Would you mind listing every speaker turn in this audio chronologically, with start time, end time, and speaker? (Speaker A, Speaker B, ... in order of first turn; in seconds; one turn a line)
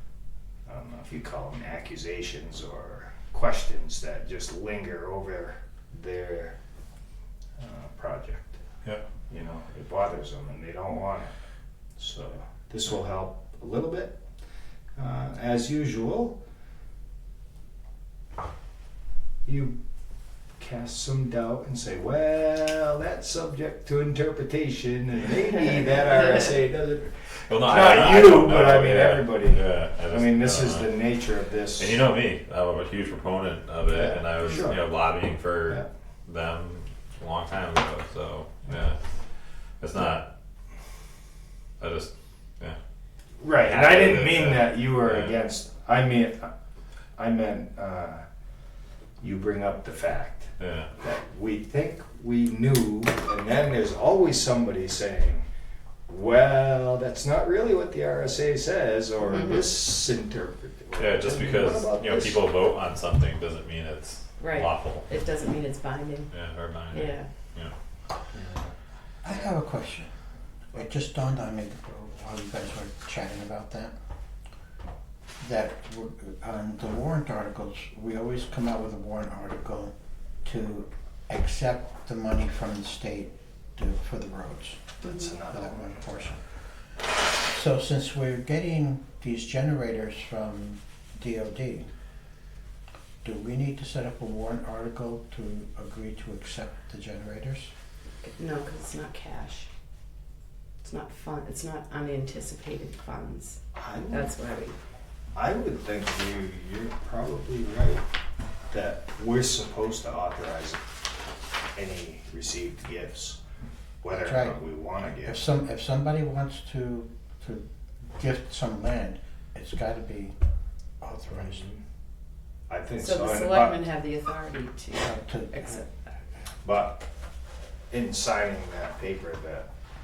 Speaker A: 0.7-6.6
Speaker A: 7.6-8.6
Speaker A: 9.3-11.3
Speaker A: 12.0-14.2
Speaker A: 14.9-16.4
Speaker A: 19.4-19.8
Speaker A: 20.6-32.0
Speaker B: 27.5-31.0
Speaker B: 31.8-39.0
Speaker A: 33.9-34.8
Speaker B: 39.8-40.3
Speaker B: 41.8-42.8
Speaker A: 43.4-46.5
Speaker B: 43.6-45.3
Speaker A: 47.1-48.2
Speaker A: 49.2-55.4
Speaker B: 50.6-50.9
Speaker A: 56.1-62.4
Speaker C: 59.2-59.6
Speaker B: 61.0-65.1
Speaker C: 64.4-66.3
Speaker B: 66.3-67.7
Speaker C: 66.9-67.3
Speaker A: 68.3-68.7
Speaker D: 69.2-70.1
Speaker D: 70.7-73.9
Speaker D: 75.4-79.9
Speaker D: 80.4-84.9
Speaker C: 85.0-85.3
Speaker A: 85.0-86.0
Speaker D: 85.5-86.4
Speaker D: 87.5-91.9
Speaker D: 93.2-97.7
Speaker C: 98.2-99.7
Speaker C: 100.8-103.6
Speaker A: 103.8-104.3
Speaker C: 104.1-104.7
Speaker A: 105.3-108.0
Speaker A: 108.7-110.8
Speaker A: 111.7-113.4
Speaker A: 114.0-115.4
Speaker D: 114.1-114.6
Speaker D: 115.2-120.3
Speaker D: 121.0-121.6
Speaker A: 121.3-121.8
Speaker A: 122.7-123.9
Speaker C: 123.0-126.1
Speaker D: 124.9-125.7
Speaker A: 126.6-127.0
Speaker A: 127.9-129.7